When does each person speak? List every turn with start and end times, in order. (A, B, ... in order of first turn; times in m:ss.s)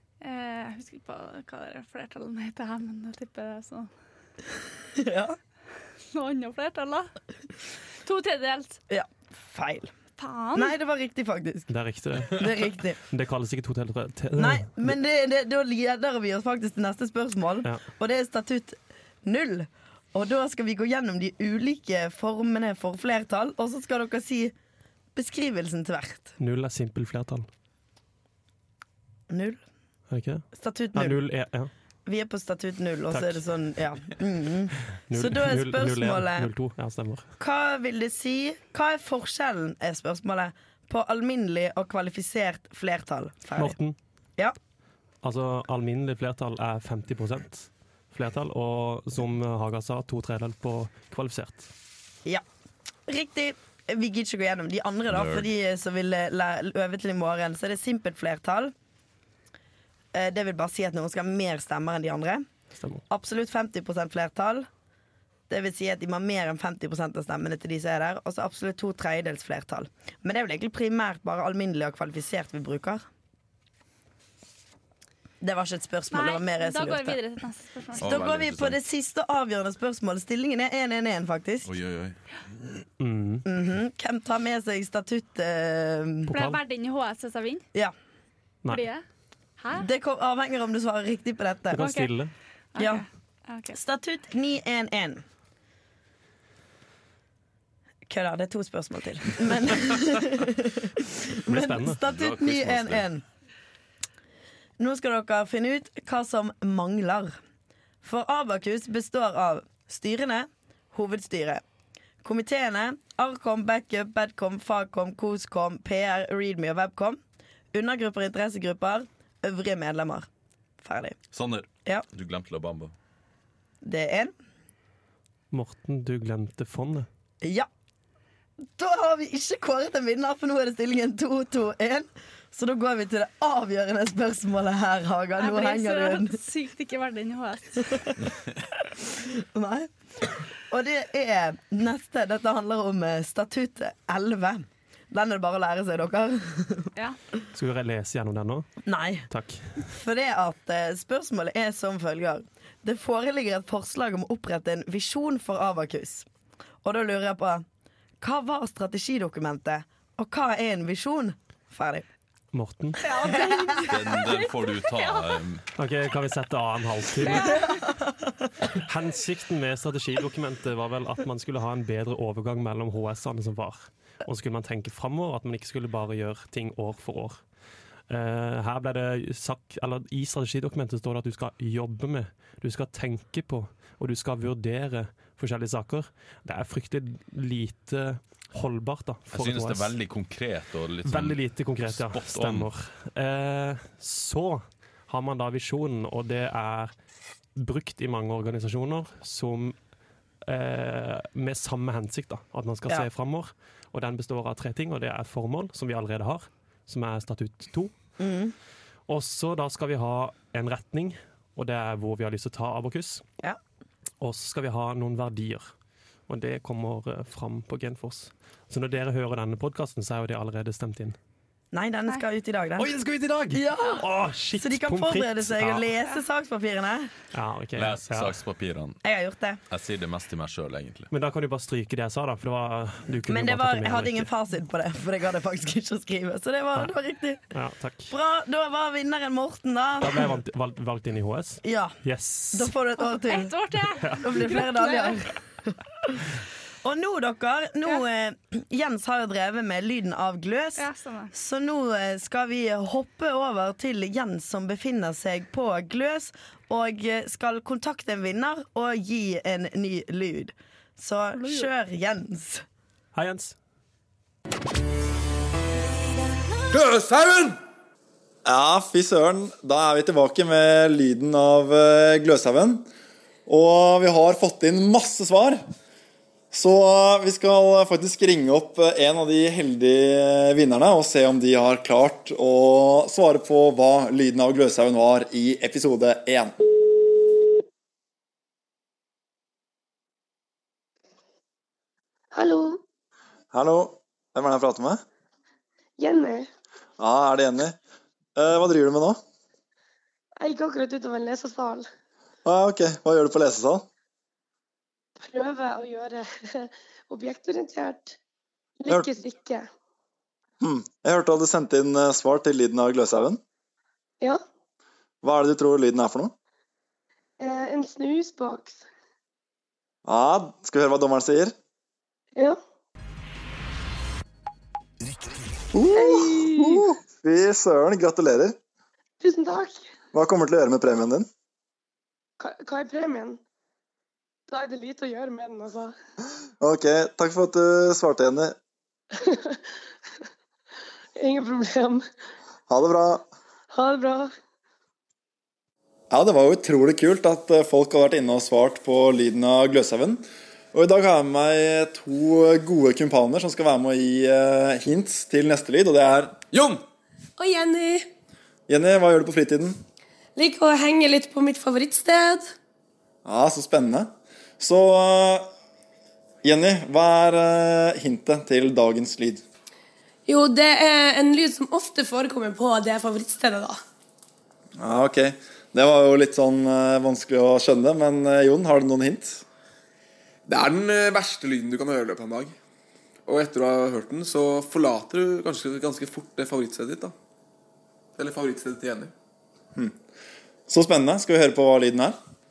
0:00.2-0:03.9 A
0:04.9-0:05.4 B
0:06.1-0:07.1 A
0:08.0-0:08.8 A
0:08.9-0:09.9 B
0:10.2-0:10.7 A
0:10.5-0:11.7 B
0:11.7-0:12.5 C
0:12.3-0:13.0 B
0:13.1-0:14.9 C
0:14.4-0:24.5 B
0:25.1-0:26.4 B
0:26.4-0:27.5 C
0:29.3-0:29.6 B
0:30.1-0:30.4 C
0:30.5-0:31.2 B
0:30.9-0:31.7 C
0:32.0-0:36.5 B
0:33.1-0:33.4 C
0:35.1-0:37.3 C
0:37.4-0:43.8 B
0:43.5-0:44.0 C
0:45.2-0:51.7 C
0:53.1-0:58.7 B
0:55.1-0:55.5 D
1:00.1-1:02.5 B
1:02.8-1:03.0 C
1:03.1-1:04.7 B
1:05.5-1:13.0 B
1:15.4-1:17.2 B
1:16.1-1:18.2 A
1:18.0-1:18.8 D
1:18.0-1:21.7 B
1:21.6-1:22.2 D
1:23.0-1:23.4 C
1:23.4-1:26.3 B
1:26.3-1:26.6 C
1:26.3-1:27.6 A
1:28.7-1:29.0 A
1:29.6-1:29.9 A
1:29.7-1:31.8 B
1:31.7-1:32.3 C
1:31.8-1:32.1 A
1:32.7-1:33.8 A
1:32.8-1:33.0 B
1:33.7-1:35.2 B
1:38.1-1:43.2 B
1:41.5-1:42.0 C
1:42.0-1:43.1 D
1:44.8-1:47.3 B
1:48.0-1:51.6 B
1:52.2-1:57.2 B
1:57.7-2:00.3 B
2:00.8-2:01.2 B
2:01.3-2:02.9 D
2:03.8-2:04.3 B
2:05.5-2:07.1 C
2:07.4-2:07.7 B
2:08.8-2:16.4 B
2:15.4-2:18.1 A
2:18.8-2:26.9 B
2:27.5-2:28.7 C
2:28.8-2:29.3 B
2:29.3-2:29.8 C
2:29.8-2:36.3 B
2:36.8-2:37.6 B
2:38.2-2:42.0 B
2:42.5-2:43.0 C
2:43.0-2:45.4 A
2:43.2-2:44.0 B
2:43.8-2:45.6 D
2:45.8-2:47.6 C
2:47.2-2:47.8 A
2:47.3-2:48.1 B
2:48.7-2:57.4 C
2:58.1-3:09.9 C
3:09.3-3:12.7 D
3:11.0-3:16.9 C
3:17.6-3:19.8 C
3:20.4-3:27.9 C
3:28.2-3:28.5 B
3:29.1-3:33.2 C
3:34.2-3:35.7 C
3:36.3-3:41.2 C
3:41.7-3:42.9 B
3:42.8-3:45.8 C
3:43.5-3:44.0 B
3:44.6-3:47.1 B
3:47.3-3:48.4 C
3:47.8-3:49.0 D
3:49.0-3:49.6 B
3:49.7-3:51.1 D
3:51.1-3:54.3 C
3:53.3-3:57.4 B
3:57.5-3:58.1 C
3:58.1-4:00.3 B
4:00.0-4:02.7 C
4:01.6-4:02.0 B
4:02.5-4:03.6 B
4:03.2-4:05.2 A
4:04.0-4:04.4 C
4:04.2-4:06.3 B
4:06.8-4:22.6 B
4:10.8-4:11.3 A
4:21.4-4:21.7 A
4:23.1-4:23.6 C
4:26.7-4:27.6 E
4:28.4-4:32.9 F
4:33.4-4:35.6 F
4:36.5-4:46.6 F
4:52.3-4:52.8 G
4:53.5-4:55.0 F
4:56.0-4:56.5 G
4:57.0-4:57.8 F
4:58.4-4:59.2 F
5:00.4-5:01.9 G
5:02.4-5:03.8 F
5:05.2-5:08.2 G
5:08.8-5:09.7 G
5:10.6-5:13.4 F
5:15.2-5:16.3 F
5:17.4-5:18.8 G
5:20.0-5:21.5 F
5:25.7-5:28.6 F
5:25.9-5:26.9 G
5:29.2-5:29.8 G
5:30.1-5:31.3 F
5:32.4-5:33.4 G
5:34.5-5:35.9 G
5:36.6-5:38.5 F
5:39.1-5:39.6 G
5:41.2-5:42.0 G
5:42.7-5:43.2 F
5:43.7-5:44.3 G
5:46.1-5:56.4 F
5:56.5-5:56.8 E
5:57.4-5:58.1 H
5:58.7-5:59.8 F
6:00.4-6:02.5 H
6:03.2-6:05.5 F
6:06.4-6:09.4 F
6:10.3-6:13.8 H
6:14.8-6:19.4 F
6:20.5-6:22.5 E
6:23.3-6:27.1 E
6:28.2-6:29.1 E
6:30.7-6:32.1 F